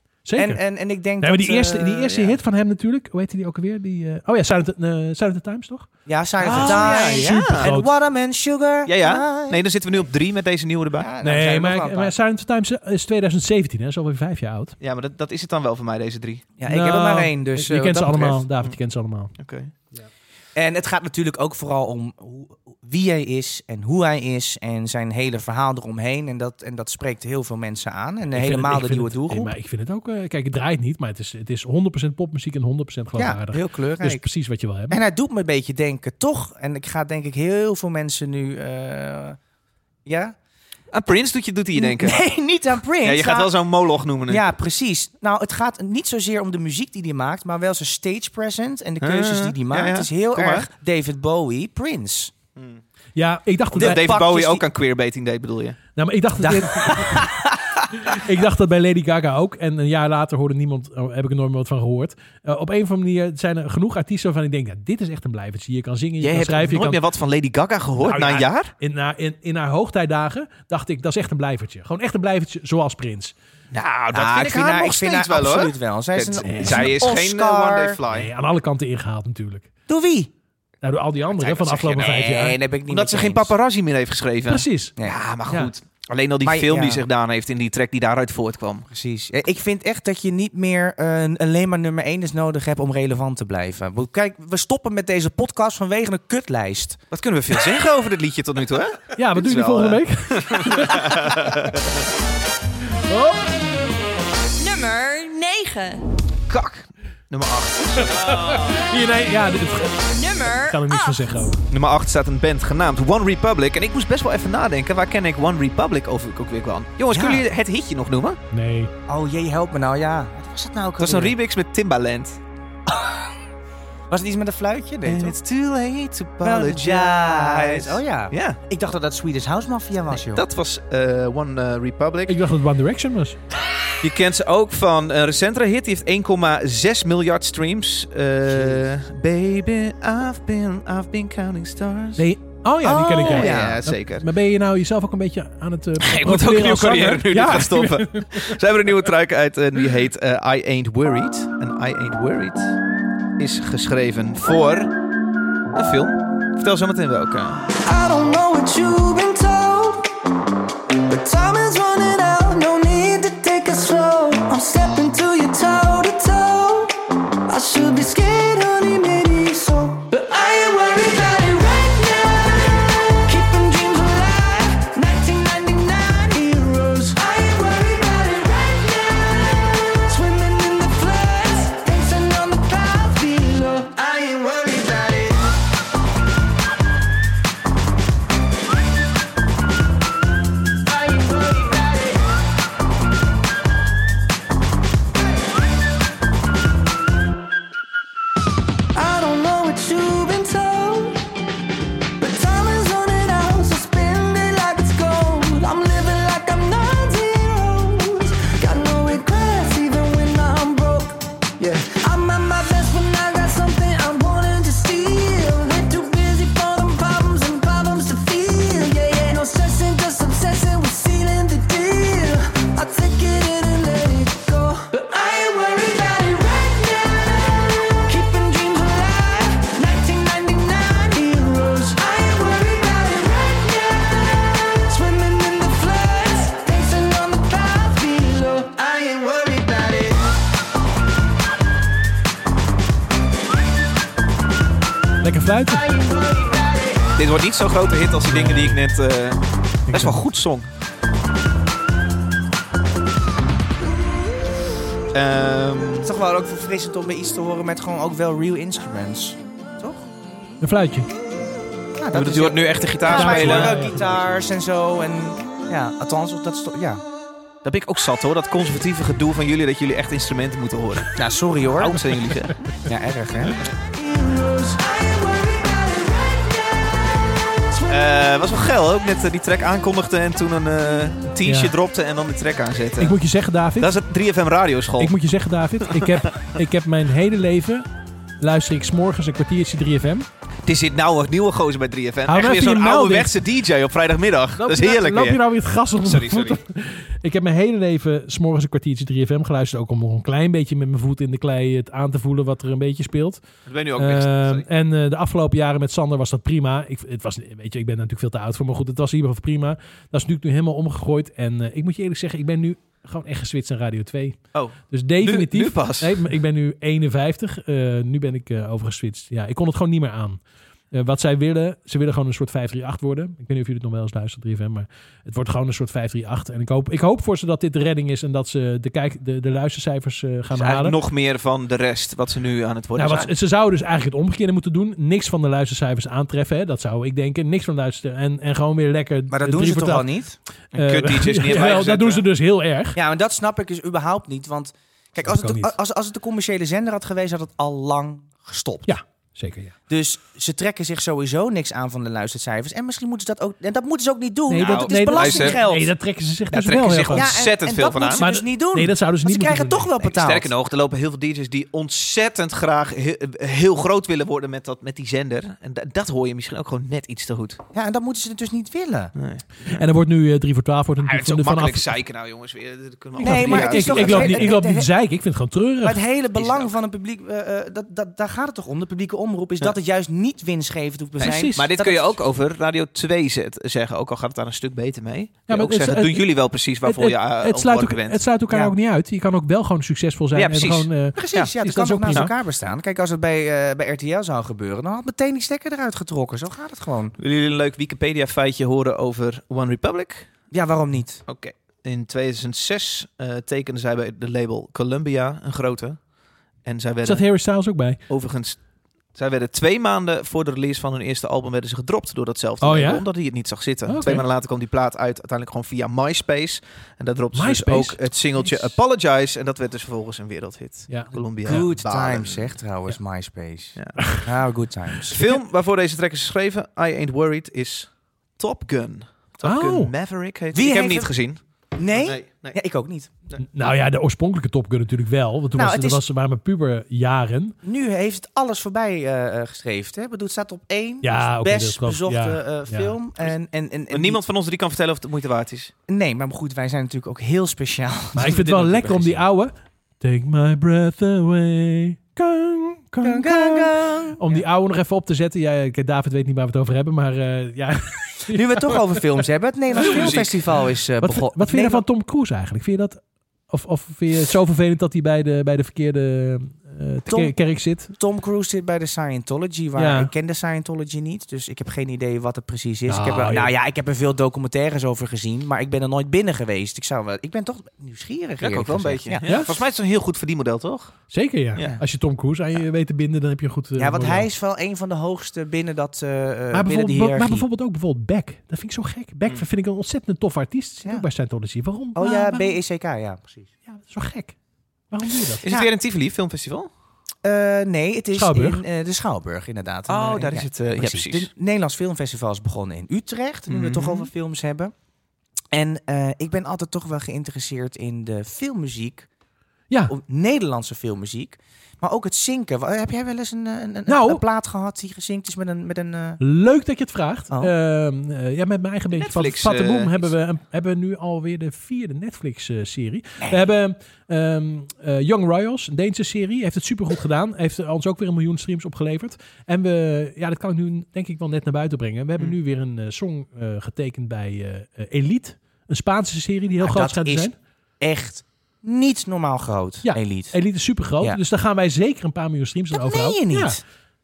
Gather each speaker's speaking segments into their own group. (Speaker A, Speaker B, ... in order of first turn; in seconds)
Speaker A: 0.2-0.6, 1.2-7.9, 11.2-14.8, 16.7-19.3, 28.3-35.0, 53.1-54.1, 56.0-57.3, 58.0-67.0, 68.0-73.3, 76.4-77.0, 78.1-79.7, 80.8-82.6, 84.5-84.9, 99.2-101.3, 103.1-103.4, 108.0-111.6, 118.5-118.9, 132.3-133.4, 142.2-148.6, 245.2-245.8, 248.2-248.8, 249.9-250.2, 260.6-261.1, 263.1-264.0, 281.4-281.7, 283.0-284.0, 285.0-287.9, 288.4-290.3, 292.2-293.3, 294.6-303.4, 304.0-314.4, 314.9-320.4, 320.9-331.0, 333.0-340.2, 340.7-343.0, 345.2-345.7, 348.9-349.8, 354.5-357.4, 358.1-359.9, 369.6-371.9, 373.2-376.0, 381.2-381.6, 385.5-392.3, 407.0-408.0, 412.6-413.0, 413.9-414.2, 417.3-418.7, 420.9-421.7, 429.4-429.9, 433.4-437.5, 441.0-443.0, 448.1-458.8, 461.0-467.9, 469.8-470.1, 472.9-473.5, 479.2-479.5, 481.1-484.3, 486.5-492.6, 493.7-494.4, 494.9-495.5, 498.1-498.6, 513.9-514.2, 516.2-537.3, 539.8-543.6
Speaker B: 0.3-2.3, 6.0-9.6, 10.9-12.1, 16.6-18.4, 20.6-29.5, 33.1-34.2, 34.9-39.4, 40.0-40.3, 41.8-43.5, 44.3-52.3, 53.8-54.6, 56.5-57.3, 74.1-78.0, 79.9-80.3, 82.0-83.5, 86.4-87.0, 88.9-97.0, 117.1-117.4, 119.1-121.3, 124.1-125.4, 126.4-130.4, 142.8-143.8, 256.0-260.0, 262.0-267.0, 271.1-272.0, 272.9-273.6, 339.3-340.4, 342.9-348.9, 349.9-355.9, 357.1-360.5, 367.7-369.1, 373.2-374.9, 375.8-382.2, 391.1-397.1, 400.5-401.2, 421.4-425.2, 430.5-431.2, 431.8-433.1, 435.5-436.0, 437.6-444.2, 445.9-448.4, 453.0-454.4, 458.3-461.8, 467.1-467.3, 468.0-479.3, 483.8-487.4, 492.0-493.5, 497.2-504.7, 505.5-509.1, 509.9-516.2, 536.6-540.4, 542.7-543.6
Speaker C: 6.4-7.7, 8.9-11.1, 14.8-16.4, 19.4-19.7, 40.9-42.2, 43.0-44.4, 49.0-50.7, 52.5-52.8, 53.7-55.8, 56.4-57.2, 66.2-68.7, 73.7-78.3, 81.4-88.9, 97.1-101.9, 106.5-108.8, 111.7-118.4, 121.0-122.4, 125.0-128.6, 130.1-132.4, 134.0-142.3, 143.1-144.3, 146.0-152.8, 153.4-154.9, 155.7-157.7, 247.2-250.7, 255.1-256.1, 262.1-263.8, 267.6-271.1, 271.8-272.5, 277.9-283.2, 283.8-285.1, 285.8-286.3, 290.6-295.4, 296.0-296.6, 303.6-304.7, 314.5-316.3, 330.5-333.3, 340.7-342.2, 354.6-355.7, 356.5-358.3, 360.0-367.6, 369.1-369.8, 371.0-374.5, 376.3-376.8, 381.2-388.2, 390.3-391.5, 397.2-400.4, 401.2-406.0, 406.6-407.3, 408.1-408.6, 409.1-422.6, 423.8-424.1, 425.1-432.6, 443.9-445.7, 448.2-449.2, 459.8-460.4, 478.4-481.0, 495.4-496.7, 499.9-501.3, 503.5-504.1, 518.9-520.1
Speaker D: 104.6-106.0, 110.1-111.2
Speaker E: 157.8-160.1, 161.1-166.9, 167.5-185.4, 190.8-192.2, 198.9-201.2, 202.2-240.2, 245.7-247.0, 273.9-278.1